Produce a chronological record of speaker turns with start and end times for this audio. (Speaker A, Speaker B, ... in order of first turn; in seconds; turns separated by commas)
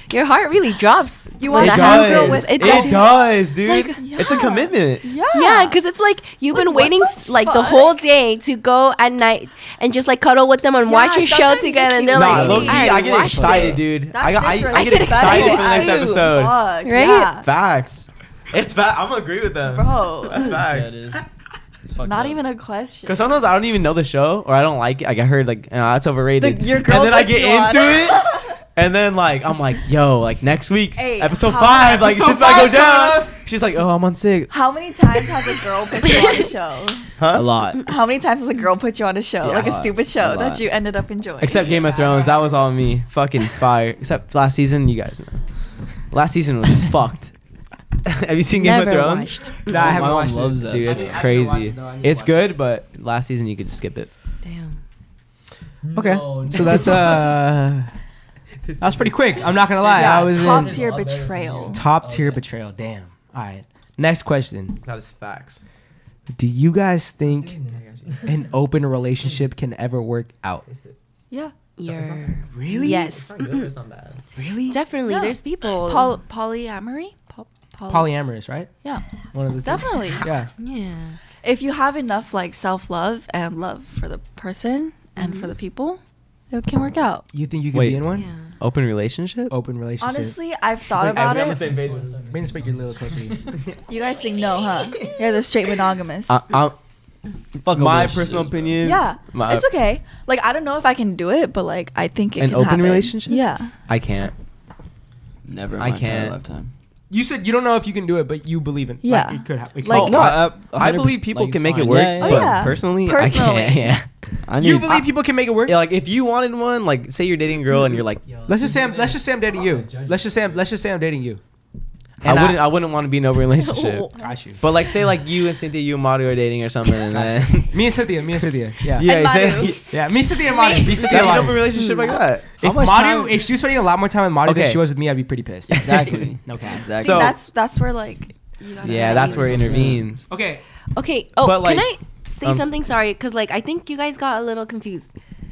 Speaker A: 0.1-4.4, Speaker B: 1.4-3.1, Speaker C: 1.6-5.1, Speaker B: 3.9-5.8, Speaker A: 5.3-13.8, Speaker B: 6.5-8.0, Speaker B: 10.8-17.5, Speaker C: 12.1-21.2, Speaker D: 12.3-13.7, Speaker A: 14.7-16.3, Speaker A: 16.8-17.4, Speaker B: 19.7-20.4, Speaker D: 20.3-21.2, Speaker D: 21.9-22.4, Speaker B: 22.0-23.4, Speaker C: 23.1-34.5, Speaker B: 26.4-28.5, Speaker B: 31.0-33.3, Speaker E: 32.3-32.6, Speaker B: 34.5-37.1, Speaker C: 37.2-37.5, Speaker D: 37.3-37.8, Speaker B: 37.9-41.6, Speaker D: 39.4-40.7, Speaker C: 41.4-45.4, Speaker C: 46.1-47.3, Speaker C: 48.0-49.5, Speaker A: 48.5-50.0, Speaker E: 49.7-51.5, Speaker D: 49.7-52.5, Speaker C: 50.7-54.1, Speaker A: 54.4-54.8, Speaker D: 55.9-57.3, Speaker E: 55.9-57.9, Speaker C: 58.7-59.1, Speaker E: 58.8-61.0, Speaker D: 59.8-62.4, Speaker B: 59.9-61.8, Speaker E: 61.7-64.8, Speaker C: 64.8-65.6, Speaker E: 66.3-67.6, Speaker C: 67.7-68.3, Speaker E: 68.2-70.7, Speaker C: 70.7-70.9, Speaker A: 71.8-73.7, Speaker E: 72.2-73.1, Speaker C: 72.7-74.2, Speaker E: 74.3-74.8, Speaker A: 74.7-76.2, Speaker B: 75.1-78.1, Speaker E: 77.9-78.7, Speaker E: 79.3-80.5, Speaker B: 79.6-80.3, Speaker A: 80.6-81.2, Speaker B: 81.4-87.2, Speaker A: 85.2-85.5, Speaker E: 87.3-88.3, Speaker C: 87.7-89.5, Speaker A: 88.1-88.5, Speaker E: 89.5-90.4, Speaker B: 90.0-91.6, Speaker C: 91.0-92.2, Speaker D: 91.3-93.6, Speaker E: 92.3-93.5, Speaker B: 93.9-96.4, Speaker C: 96.3-96.8, Speaker C: 97.6-99.7, Speaker D: 97.7-98.8, Speaker B: 98.8-103.7, Speaker C: 102.4-104.3, Speaker D: 105.5-106.7, Speaker C: 105.8-106.4, Speaker E: 107.1-110.5, Speaker B: 109.0-109.5, Speaker C: 109.8-114.1, Speaker D: 109.9-112.7, Speaker B: 112.2-114.0, Speaker D: 114.5-115.1, Speaker E: 114.6-115.8, Speaker C: 115.7-118.3, Speaker D: 118.3-119.2, Speaker E: 118.5-121.4, Speaker E: 122.2-122.6, Speaker C: 122.2-124.1, Speaker B: 123.6-124.4, Speaker E: 124.2-124.6, Speaker C: 124.6-127.8, Speaker E: 127.1-129.1, Speaker C: 128.9-130.0, Speaker B: 129.0-129.8, Speaker E: 129.9-131.7, Speaker B: 130.4-132.2, Speaker C: 131.1-132.5, Speaker D: 131.2-131.6, Speaker E: 132.6-137.2, Speaker D: 132.6-133.5, Speaker C: 134.4-134.8, Speaker D: 135.7-137.3, Speaker C: 136.9-137.4, Speaker B: 137.0-139.8, Speaker C: 138.8-140.3, Speaker A: 138.9-139.6, Speaker D: 139.6-140.0, Speaker E: 140.3-140.6, Speaker A: 140.9-145.1, Speaker C: 141.4-141.9, Speaker C: 142.4-142.8